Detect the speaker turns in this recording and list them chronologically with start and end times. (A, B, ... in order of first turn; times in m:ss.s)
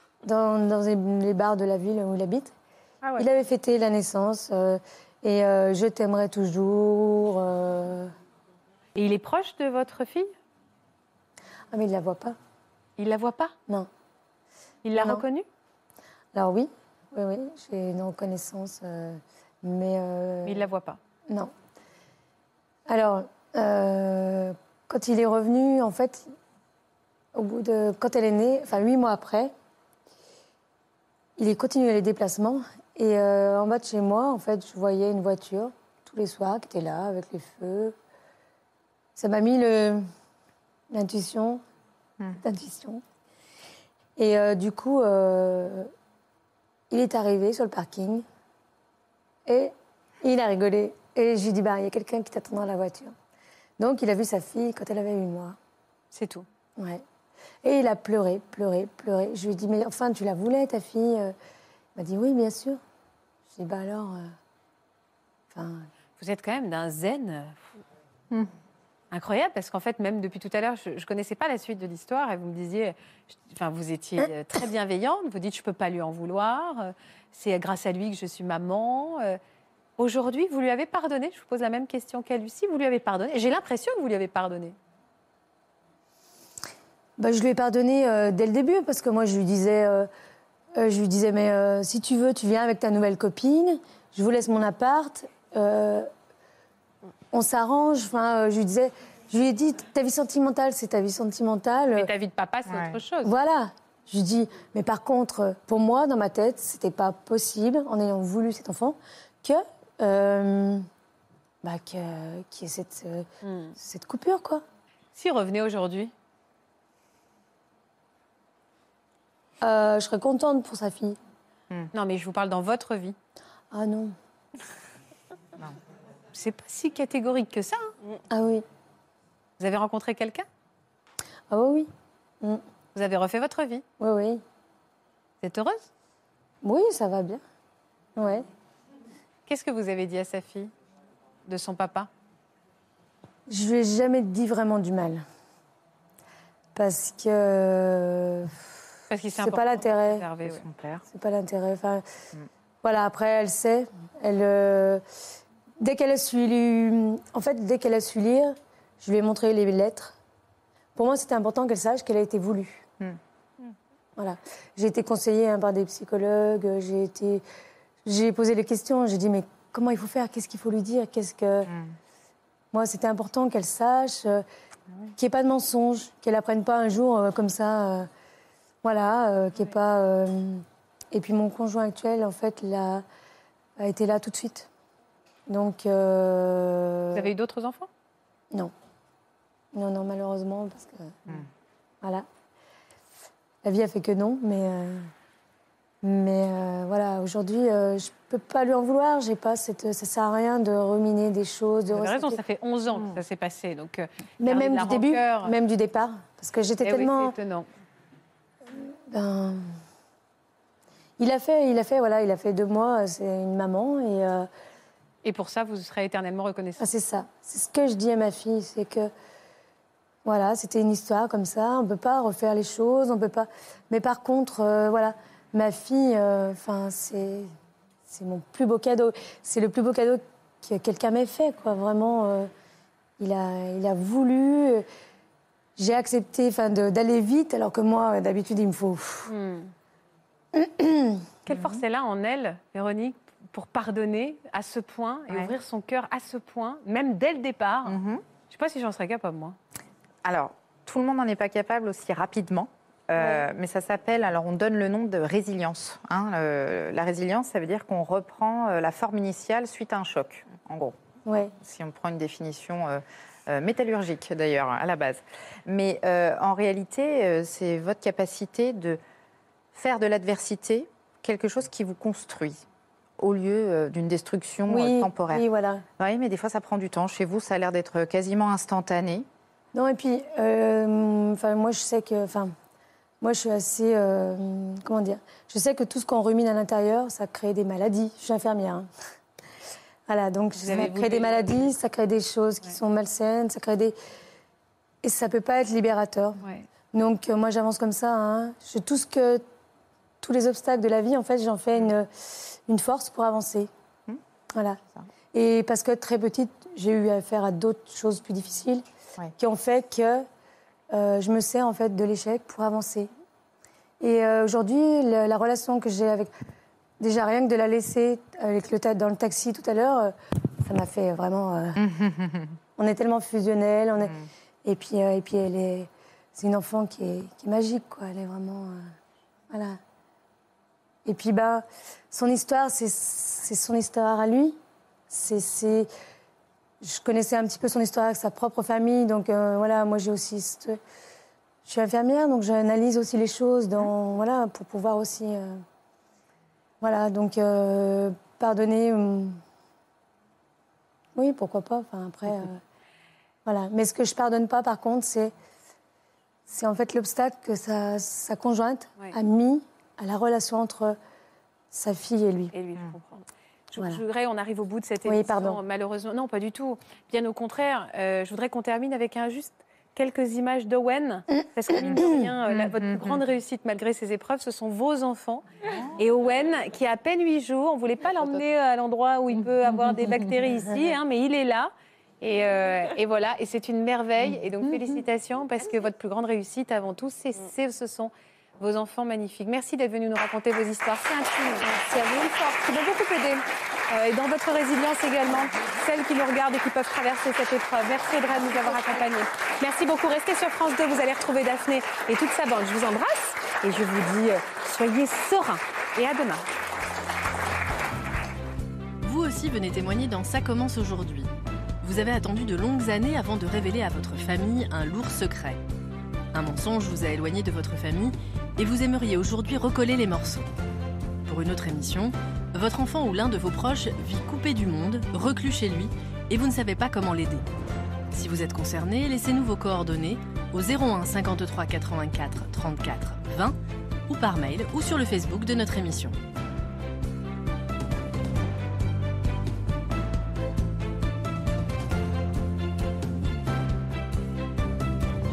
0:00.2-0:02.5 A
0:03.0-0:03.3 B
0:03.2-0:08.1 A
0:09.0-0:10.3 B
0:11.7-0:12.4 A
0:13.0-0:13.6 B
0:14.8-0:15.4 B
0:14.9-0:15.2 A
0:16.3-0:20.6 A
0:20.4-0:21.0 B
0:22.9-0:26.3 A
0:27.4-0:29.5 A
0:31.4-0:38.0 A
0:39.2-0:40.0 A
0:40.9-0:41.6 A
0:42.4-0:43.0 A
0:44.2-0:45.9 A
0:46.9-0:48.2 A
0:49.5-0:53.1 A
0:53.8-0:55.6 A
0:56.1-0:56.5 B
0:56.8-0:57.0 A
0:57.6-1:01.3 A
1:02.0-1:02.8 A
1:03.5-1:04.3 A
1:05.5-1:05.9 A
1:06.2-1:07.6 B
1:09.1-1:19.4 B
1:20.0-1:24.8 B
1:27.2-1:30.1 A
1:30.8-1:36.1 A
1:37.3-1:42.1 A
1:42.0-1:43.3 B
1:42.7-1:43.0 C
1:43.2-1:50.9 A
1:51.6-1:53.3 A
1:53.4-1:53.8 B
1:53.8-1:54.6 A
1:55.1-1:56.1 B
1:59.6-2:01.2 A
2:01.9-2:03.2 B
2:03.7-2:04.2 A
2:06.3-2:07.9 B
2:08.3-2:08.6 A
2:09.6-2:10.5 B
2:11.5-2:11.9 A
2:13.0-2:13.8 B
2:14.0-2:14.4 A
2:15.4-2:15.9 B
2:16.6-2:17.4 A
2:18.2-2:18.5 A
2:19.5-2:20.7 B
2:21.5-2:22.1 B
2:23.5-2:25.2 A
2:26.8-2:28.6 A
2:29.1-2:30.6 B
2:29.4-2:30.3 A
2:30.4-2:31.1 C
2:31.1-2:32.0 A
2:32.8-2:35.0 A
2:35.8-2:40.2 A
2:41.0-2:42.9 A
2:44.2-2:47.4 A
2:48.0-2:51.7 A
2:52.7-2:54.4 A
2:55.2-2:58.1 A
2:58.8-3:03.0 A
3:03.8-3:04.7 A
3:05.5-3:07.3 A
3:07.1-3:07.9 B
3:09.7-3:11.5 A
3:12.0-3:12.3 A
3:13.6-3:15.1 A
3:16.0-3:22.4 A
3:21.9-3:25.5 B
3:24.4-3:27.4 A
3:26.8-3:27.7 B
3:28.7-3:29.6 A
3:31.2-3:34.5 A
3:35.2-3:36.9 B
3:36.8-3:39.1 A
3:40.2-3:47.5 A
3:48.1-3:52.5 A
3:53.2-3:54.8 A
3:55.8-3:59.3 A
3:59.3-3:59.7 B
4:00.5-4:01.3 A
4:01.5-4:09.6 B
4:01.5-4:01.8 C
4:05.3-4:05.6 C
4:07.9-4:08.2 C
4:10.2-4:21.0 C
4:21.3-4:21.5 A
4:21.6-4:29.0 C
4:29.7-4:32.6 C
4:33.2-4:35.4 C
4:34.7-4:35.8 A
4:36.0-4:39.3 C
4:39.7-4:42.5 A
4:43.2-4:48.9 A
4:50.1-4:54.0 A
4:50.6-4:51.7 B
4:55.0-4:59.4 A
5:00.2-5:03.7 A
5:04.5-5:04.8 A
5:05.3-5:08.8 A
5:09.4-5:10.2 A
5:10.9-5:13.1 A
5:14.0-5:16.3 A
5:17.0-5:21.8 A
5:21.8-5:22.6 C
5:22.8-5:28.9 A
5:29.5-5:29.8 A
5:31.0-5:34.6 A
5:35.1-5:35.9 A
5:36.8-5:40.8 A
5:41.7-5:45.6 A
5:46.8-5:49.4 A
5:51.2-5:52.6 A
5:53.5-5:55.3 A
5:56.5-6:01.0 A
6:01.7-6:02.5 A
6:02.5-6:15.4 B
6:05.0-6:05.6 A
6:12.5-6:13.2 C
6:16.0-6:46.5 B
6:49.0-6:55.6 D
6:56.3-7:00.5 D
7:01.3-7:07.5 D
7:08.1-7:13.6 D
7:14.1-7:16.2 D